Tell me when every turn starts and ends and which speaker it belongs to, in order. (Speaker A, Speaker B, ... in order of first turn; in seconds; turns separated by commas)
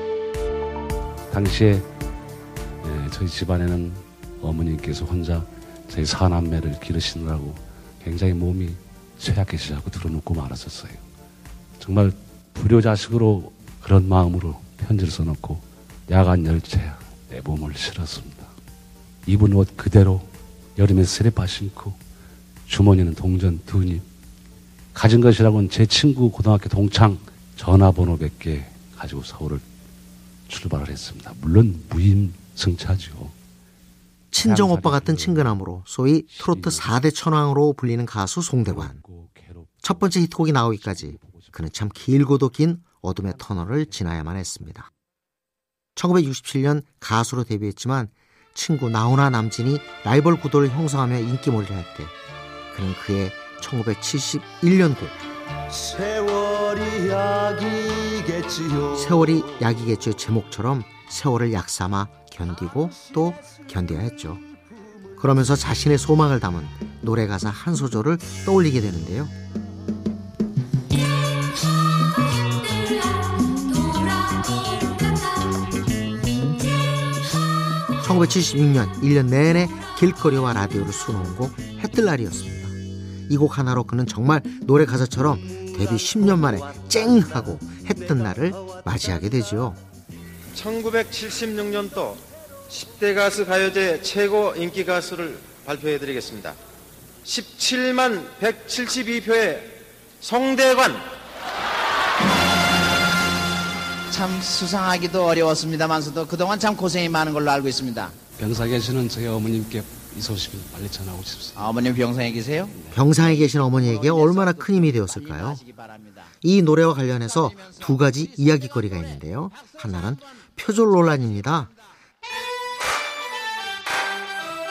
Speaker A: 1.3-1.9, Speaker A: 2.8-11.0, Speaker A: 11.8-18.5, Speaker A: 19.3-22.0, Speaker A: 22.7-24.1, Speaker A: 24.9-29.6, Speaker A: 30.5-33.4, Speaker B: 34.3-39.0, Speaker A: 34.4-35.6, Speaker A: 36.3-37.0, Speaker A: 38.7-41.6, Speaker B: 39.8-44.9, Speaker A: 43.3-44.0, Speaker B: 46.0-52.1, Speaker B: 52.7-55.2, Speaker C: 55.7-59.5, Speaker B: 59.0-64.4, Speaker B: 65.2-69.3, Speaker B: 78.0-82.8, Speaker B: 83.3-89.8, Speaker C: 85.5-89.4, Speaker D: 90.5-96.6, Speaker D: 97.2-101.1, Speaker E: 104.1-108.2, Speaker A: 108.4-111.9, Speaker E: 111.6-112.7, Speaker A: 112.6-113.0, Speaker B: 112.9-115.6, Speaker E: 113.9-116.3, Speaker B: 116.4-121.7